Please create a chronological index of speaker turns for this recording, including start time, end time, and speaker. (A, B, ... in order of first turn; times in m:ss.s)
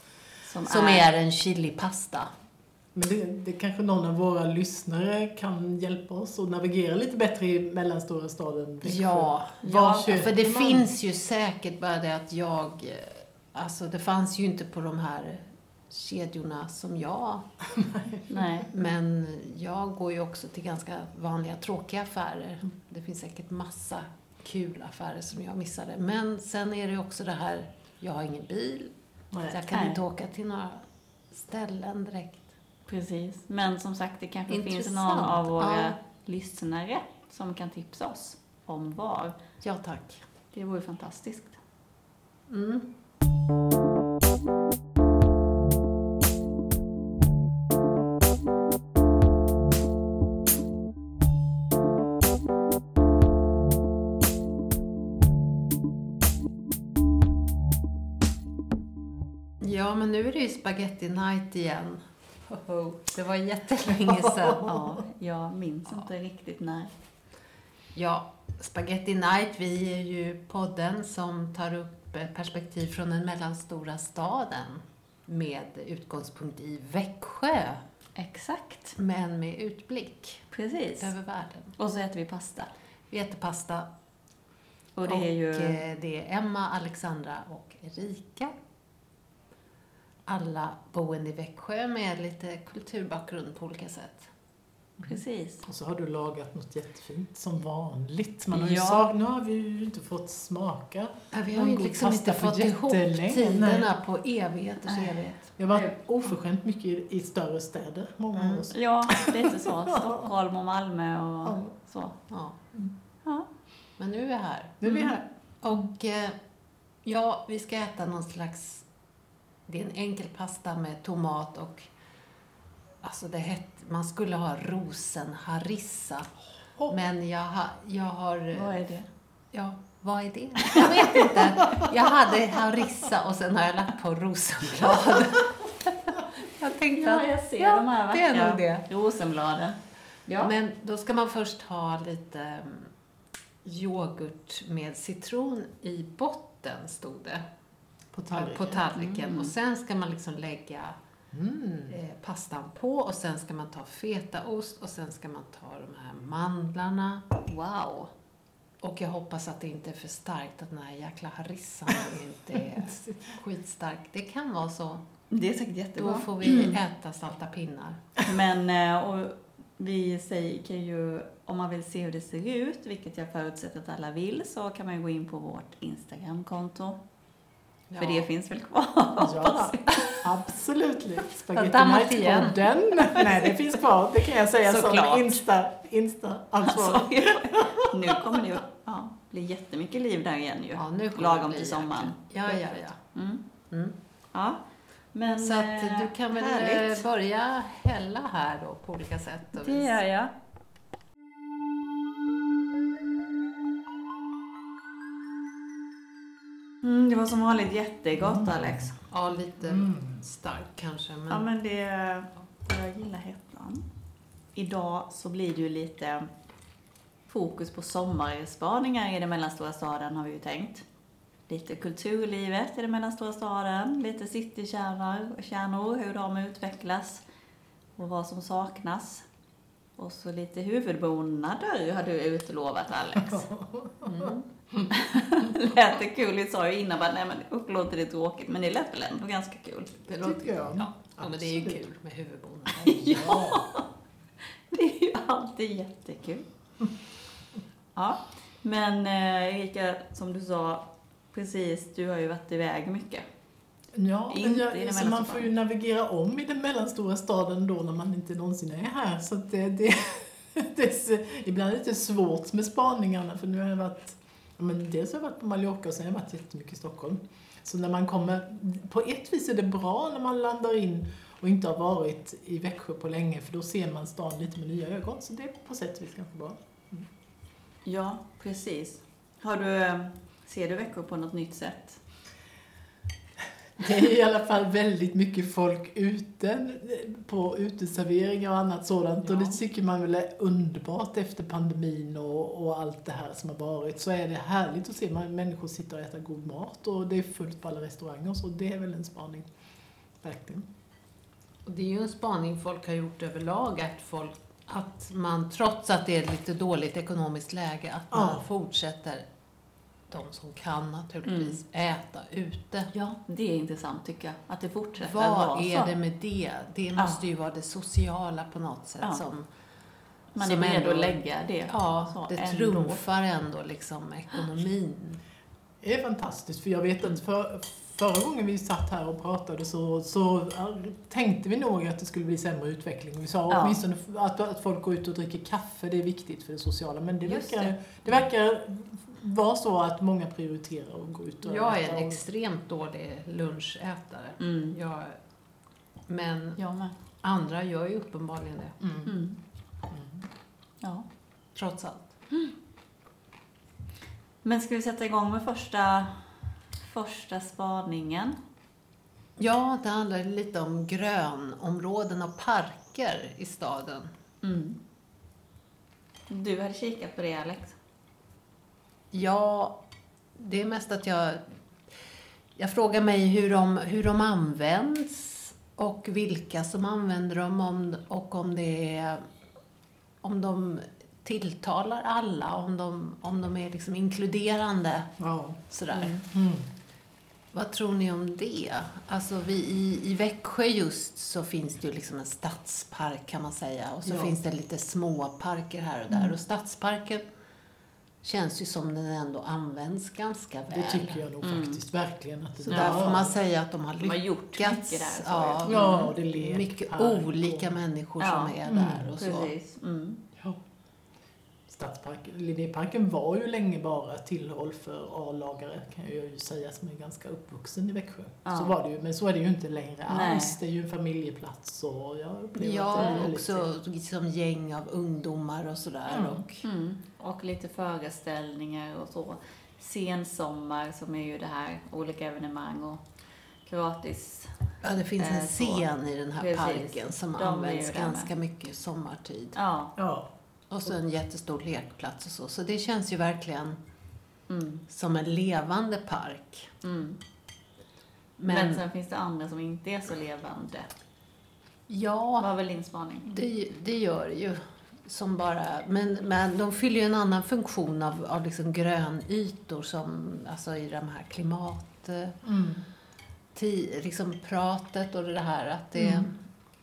0:00.4-0:01.1 A
0:00.6-0:02.3 B
0:02.9-0:10.9 C
0:08.8-0:17.4 B
0:09.6-0:10.2 A
0:17.7-0:18.5 C
0:18.3-0:18.7 A
0:18.7-0:28.9 B
0:29.3-0:29.6 C
0:29.4-0:32.5 B
0:29.7-0:30.0 A
0:32.9-0:39.3 A
0:34.5-0:35.9 B
0:39.6-0:40.2 B
0:40.5-0:41.6 A
0:42.5-0:42.8 B
0:59.6-1:04.7 B
1:04.0-1:04.9 C
1:04.6-1:06.9 A
1:07.9-1:17.8 B
1:18.1-1:19.0 A
1:19.0-1:20.4 B
1:20.5-1:21.1 A
1:21.0-1:21.7 B
1:21.8-1:22.7 A
1:23.1-1:23.9 B
1:24.9-1:25.8 A
1:25.0-1:28.6 B
1:30.3-1:34.3 B
1:35.0-1:35.6 A
1:35.0-1:43.9 C
1:38.5-1:39.1 A
1:41.3-1:45.5 B
1:44.9-1:45.9 A
1:45.6-1:50.2 C
1:48.3-1:48.7 B
1:48.7-1:52.2 A
1:51.4-1:51.7 C
1:52.3-1:52.6 B
1:54.0-1:54.8 B
1:54.8-1:55.2 C
1:54.8-1:55.2 A
1:55.6-1:56.4 B
1:57.0-1:58.8 B
1:59.7-2:01.9 B
2:03.0-2:06.3 B
2:06.9-2:08.8 B
2:08.5-2:09.1 A
2:09.5-2:18.8 B
2:16.9-2:20.5 A
2:20.4-2:22.9 B
2:23.6-2:27.4 B
2:28.1-2:28.8 C
2:28.3-2:31.0 B
2:28.9-2:29.5 A
2:31.3-2:32.0 C
2:31.9-2:37.2 B
2:37.4-2:38.1 A
2:38.8-2:45.0 B
2:42.9-2:43.2 C
2:45.3-2:46.8 A
2:46.0-2:48.0 B
2:48.2-2:57.0 A
2:57.9-2:58.3 B
2:58.0-3:00.2 A
2:59.2-3:08.4 C
3:01.5-3:03.2 B
3:03.2-3:03.5 A
3:04.6-3:05.4 A
3:06.6-3:13.4 A
3:10.7-3:13.0 B
3:14.3-3:14.6 A
3:15.1-3:17.0 A
3:15.3-3:19.9 B
3:19.6-3:20.3 A
3:26.8-3:29.0 A
3:28.2-3:28.9 C
3:29.1-3:31.5 B
3:29.6-3:30.2 C
3:31.3-3:33.8 A
3:34.5-3:36.3 A
3:37.3-3:40.8 A
3:41.5-3:47.2 A
3:48.0-3:49.2 A
3:50.0-3:53.5 A
3:53.2-3:54.9 C
3:54.0-3:54.4 B
3:54.9-4:00.4 A
4:00.2-4:01.8 C
4:01.2-4:02.9 B
4:02.8-4:03.6 C
4:02.8-4:03.8 A
4:04.7-4:06.4 A
4:08.0-4:13.2 A
4:13.9-4:37.1 C
4:14.3-4:15.5 A
4:37.8-4:42.0 A
4:43.8-4:59.5 C
4:49.2-4:49.6 A
5:00.2-5:00.7 C
5:01.6-5:09.2 B
5:08.1-5:08.4 C
5:10.1-5:12.9 B
5:11.2-5:11.6 A
5:12.9-5:15.9 A
5:15.0-5:19.5 B
5:17.0-5:17.2 A
5:20.3-5:23.0 A
5:20.4-5:25.2 B
5:25.8-5:42.2 C
5:33.5-5:33.8 A
5:37.2-5:38.2 A
5:41.4-5:45.2 B
5:44.4-5:44.7 A
5:46.1-5:46.6 B
5:46.6-5:46.9 A
5:47.2-5:48.8 B
5:48.8-5:49.1 C
5:49.0-5:49.4 A
5:49.9-5:50.3 C
5:51.5-5:52.1 B
5:54.4-5:56.3 A
5:56.8-5:58.4 A
5:59.4-6:04.1 B
6:04.4-6:04.8 A
6:06.3-6:07.7 A
6:09.1-6:09.8 B
6:10.4-6:11.4 B
6:12.6-6:19.2 B
6:20.2-6:25.1 B
6:25.2-6:25.6 C
6:25.7-6:26.2 B
6:26.2-6:26.7 C
6:27.5-6:37.2 B
6:34.0-6:34.4 C
6:38.2-6:41.2 B
6:40.7-6:43.3 C
6:41.4-6:41.8 A
6:42.7-6:43.2 A
6:42.7-6:49.5 B
6:44.0-6:46.1 A
6:45.6-6:47.8 C
6:48.2-6:48.6 A
6:48.6-6:49.1 C
6:49.2-6:50.2 A
6:51.7-7:03.6 C
6:58.4-6:58.7 A
7:00.1-7:00.6 A
7:02.6-7:06.6 B
7:03.0-7:03.2 A
7:06.1-7:06.4 C
7:06.6-7:13.0 A
7:13.6-7:14.5 A
7:14.8-7:19.6 B
7:15.2-7:15.8 A
7:16.4-7:18.3 A
7:19.5-7:19.9 A
7:20.0-7:20.3 C
7:20.7-7:23.8 B
7:24.5-7:24.8 A
7:24.9-7:26.7 B
7:26.8-7:27.2 A
7:28.4-7:28.8 B
7:28.5-7:30.9 A
7:31.9-7:32.5 B
7:32.4-7:33.4 A
7:33.3-7:42.4 B
7:42.4-7:42.8 C
7:43.5-7:46.4 B
7:46.0-7:46.2 A